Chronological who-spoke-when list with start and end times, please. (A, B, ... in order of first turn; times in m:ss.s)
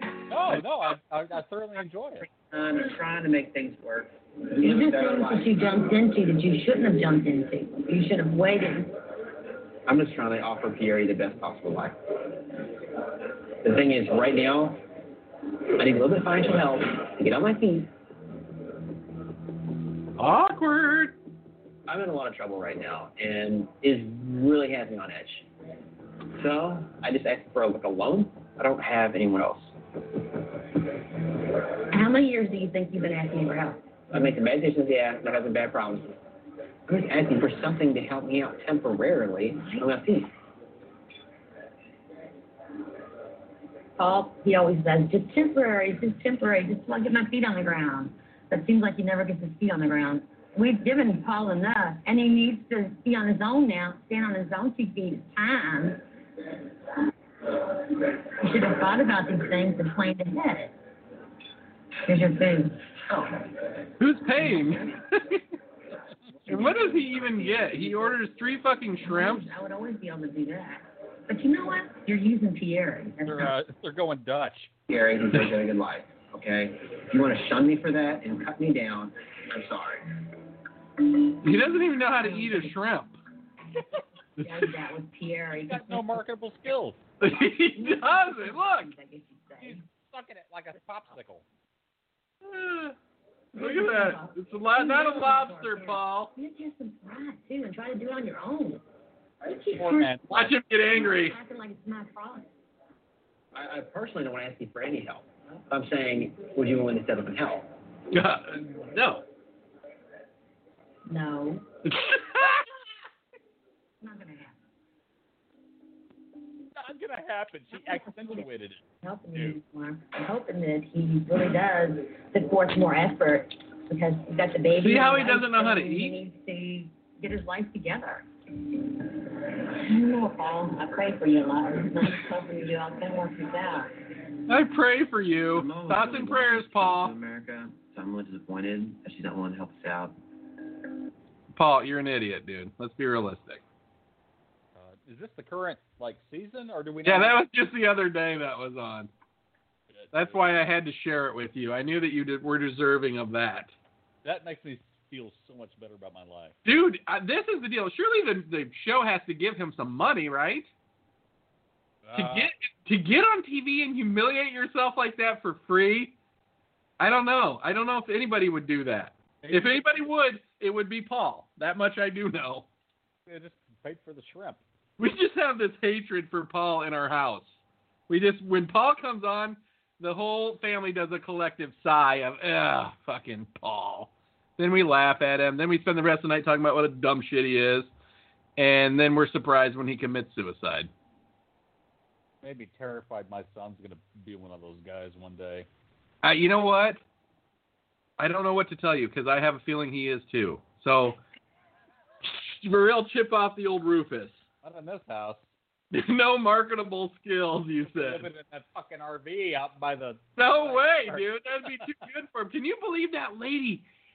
0:00.3-0:02.3 A
0:02.2-0:05.7 B
0:04.6-0:08.9 C
0:09.9-0:12.0 B
0:13.6-0:14.8 B
0:15.8-0:17.9 B
0:20.2-0:21.1 D
0:21.9-0:25.5 B
0:26.3-0:29.7 B
0:31.9-0:33.8 C
0:34.1-0:36.2 B
0:36.9-0:40.3 B
0:39.6-0:39.9 C
0:44.0-0:56.0 C
0:58.4-1:00.8 C
1:02.0-1:03.5 C
1:04.0-1:05.4 D
1:06.4-1:08.2 C
1:06.5-1:09.5 D
1:09.0-1:13.5 C
1:13.2-1:14.7 A
1:14.9-1:20.1 B
1:21.4-1:23.2 D
1:22.1-1:22.7 C
1:23.8-1:26.2 C
1:24.4-1:24.7 A
1:25.5-1:27.0 A
1:27.2-1:28.9 D
1:27.7-1:29.8 C
1:29.6-1:31.4 A
1:32.4-1:33.0 D
1:33.5-1:38.8 C
1:33.6-1:36.3 D
1:39.4-1:42.5 C
1:39.7-1:40.6 A
1:40.3-1:41.4 D
1:43.5-1:47.7 B
1:48.1-1:49.2 D
1:51.1-1:51.7 C
1:51.8-1:52.6 D
1:54.0-1:54.6 C
1:56.7-1:59.6 A
1:57.7-1:58.4 C
1:59.0-2:08.2 C
2:04.7-2:06.2 D
2:09.7-2:13.9 C
2:14.5-2:17.1 D
2:15.5-2:20.2 B
2:21.5-2:23.6 D
2:24.7-2:27.4 A
2:27.0-2:29.1 D
2:29.9-2:30.5 A
2:30.1-2:33.7 D
2:34.2-2:36.6 A
2:36.6-2:40.7 D
2:42.0-2:42.5 A
2:42.1-2:46.1 D
2:47.0-2:52.7 D
2:49.4-2:49.8 A
2:53.3-2:54.6 A
2:55.0-2:57.6 D
2:58.1-3:07.9 D
3:08.6-3:10.9 D
3:12.4-3:15.7 A
3:16.2-3:17.0 D
3:18.2-3:21.2 D
3:22.2-3:24.4 D
3:24.6-3:25.4 A
3:25.9-3:28.3 D
3:27.8-3:31.9 A
3:30.4-3:33.8 D